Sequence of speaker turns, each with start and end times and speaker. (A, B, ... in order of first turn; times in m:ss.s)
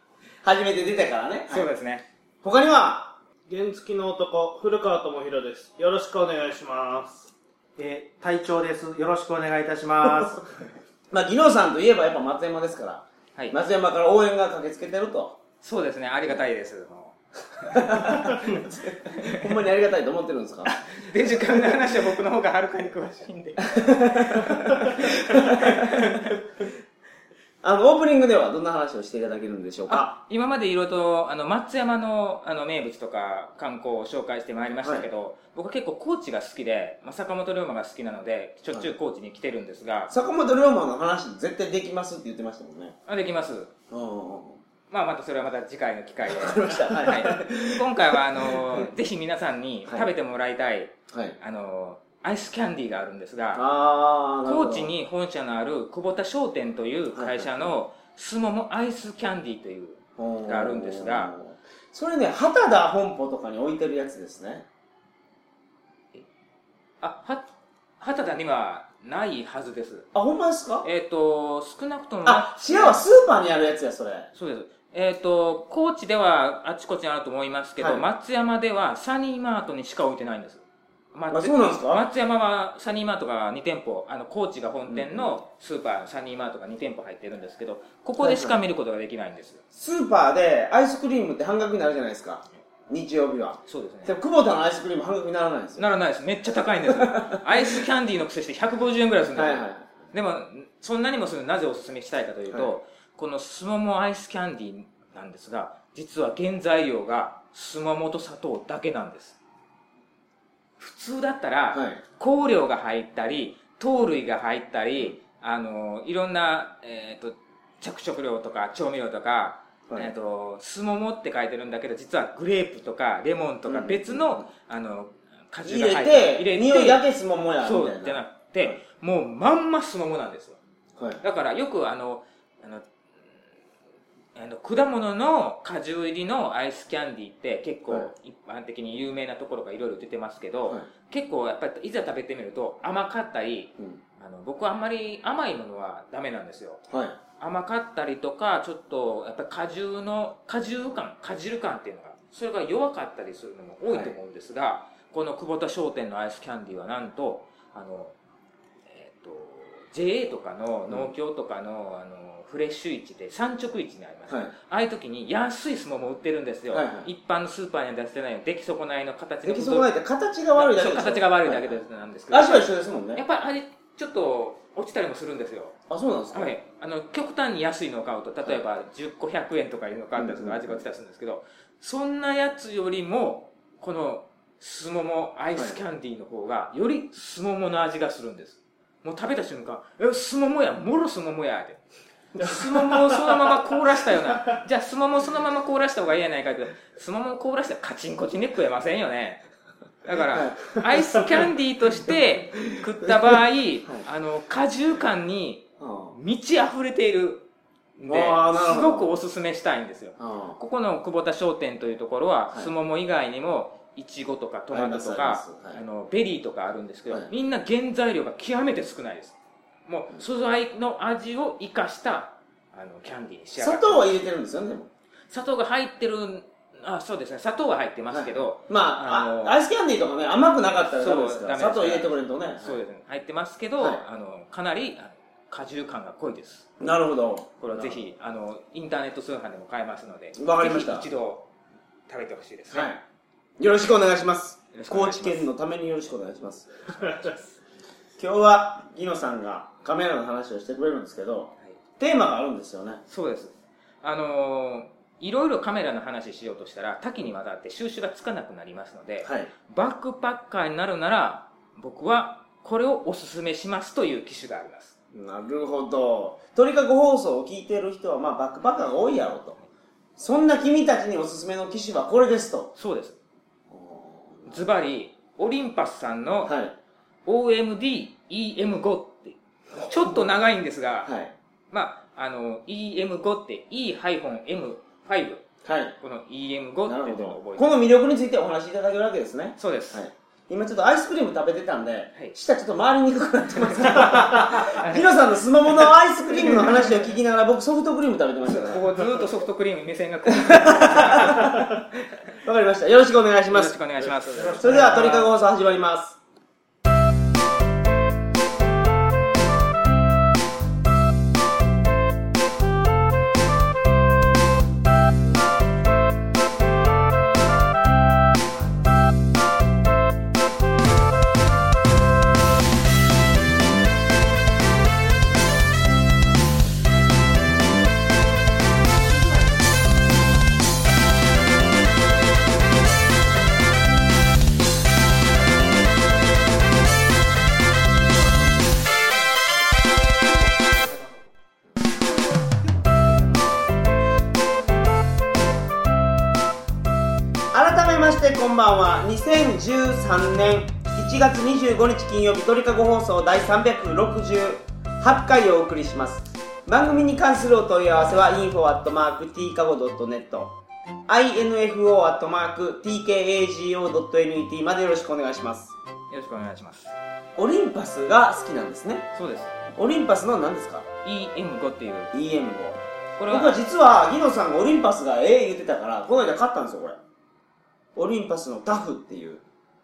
0:00.4-0:01.7 A
0:01.5-0:02.1 B
0:02.4-0:03.2 A
0:03.5-0:10.4 C
0:11.1-0:15.4 A
0:15.6-0:18.5 B
0:17.6-0:20.7 A
0:19.0-0:19.6 B
0:20.6-0:26.4 B
0:23.6-0:26.3 A
0:27.6-0:30.1 A
0:29.9-0:40.1 B
0:40.1-0:43.0 A
0:43.1-0:43.7 B
0:43.9-0:44.6 A
0:44.9-0:53.6 B
0:46.3-0:48.9 A
0:51.1-0:51.4 A
0:53.5-0:54.9 A
0:54.4-1:01.3 B
0:57.1-0:57.7 A
1:00.2-1:04.7 A
1:07.0-1:07.5 B
1:08.0-1:10.1 B
1:10.1-1:10.9 A
1:10.8-1:13.0 B
1:12.2-1:14.3 A
1:14.4-1:29.6 B
1:17.8-1:18.0 A
1:21.3-1:22.0 A
1:24.9-1:25.4 A
1:28.2-1:28.6 A
1:29.7-1:35.8 A
1:33.7-1:34.1 B
1:35.8-1:49.4 B
1:36.9-1:37.8 A
1:39.4-1:40.0 A
1:50.8-2:07.0 B
1:51.7-1:52.0 A
2:03.7-2:04.5 A
2:05.6-2:08.8 A
2:07.6-2:10.6 B
2:11.0-2:11.2 A
2:11.2-2:12.9 B
2:14.4-2:26.8 B
2:26.9-2:27.2 A
2:27.4-2:38.2 B
2:33.9-2:34.2 A
2:38.9-2:49.9 B
2:44.3-2:44.5 A
2:46.7-2:47.1 A
2:49.4-2:53.2 A
2:50.5-2:55.8 B
2:55.9-2:56.5 A
2:56.3-3:11.8 B
3:00.2-3:00.8 A
3:12.4-3:19.4 B
3:20.0-3:27.5 B
3:20.3-3:21.4 A
3:22.6-3:24.0 A
3:25.8-3:26.2 A
3:28.0-3:44.1 B
3:28.1-3:29.1 A
3:30.2-3:30.6 A
3:34.7-3:35.8 A
3:43.6-3:44.9 A
3:45.3-3:49.6 B
3:48.1-3:52.8 A
3:50.9-3:56.7 B
3:56.8-3:58.0 A
3:57.6-4:01.5 B
4:00.4-4:01.1 A
4:02.1-4:02.9 B
4:02.7-4:03.0 A
4:03.6-4:07.4 A
4:04.7-4:05.5 B
4:08.2-4:13.0 A
4:13.1-4:25.0 B
4:19.2-4:19.5 A
4:25.1-4:29.6 A
4:30.2-4:32.7 A
4:32.8-4:33.2 B
4:33.7-4:34.6 A
4:34.5-4:36.5 B
4:36.4-4:36.8 A
4:37.3-4:41.1 B
4:39.7-4:40.3 A
4:41.0-4:41.3 A
4:41.7-4:45.4 B
4:45.6-4:46.0 A
4:46.0-4:47.8 B
4:46.8-4:58.8 A
4:49.6-4:50.0 B
4:53.6-4:55.2 B
4:56.4-4:57.1 B
4:58.4-5:01.6 B
5:00.3-5:01.8 A
5:02.3-5:03.8 A
5:03.5-5:05.0 B
5:04.0-5:05.3 C
5:04.6-5:06.2 A
5:40.7-5:41.1 C
5:47.5-6:05.8 A
6:06.1-6:07.0 B
6:07.4-6:09.1 A
6:09.1-6:09.6 B
6:09.7-6:10.9 A
6:11.0-6:12.1 B
6:12.1-6:17.0 A
6:13.2-6:13.6 B
6:18.0-6:19.4 A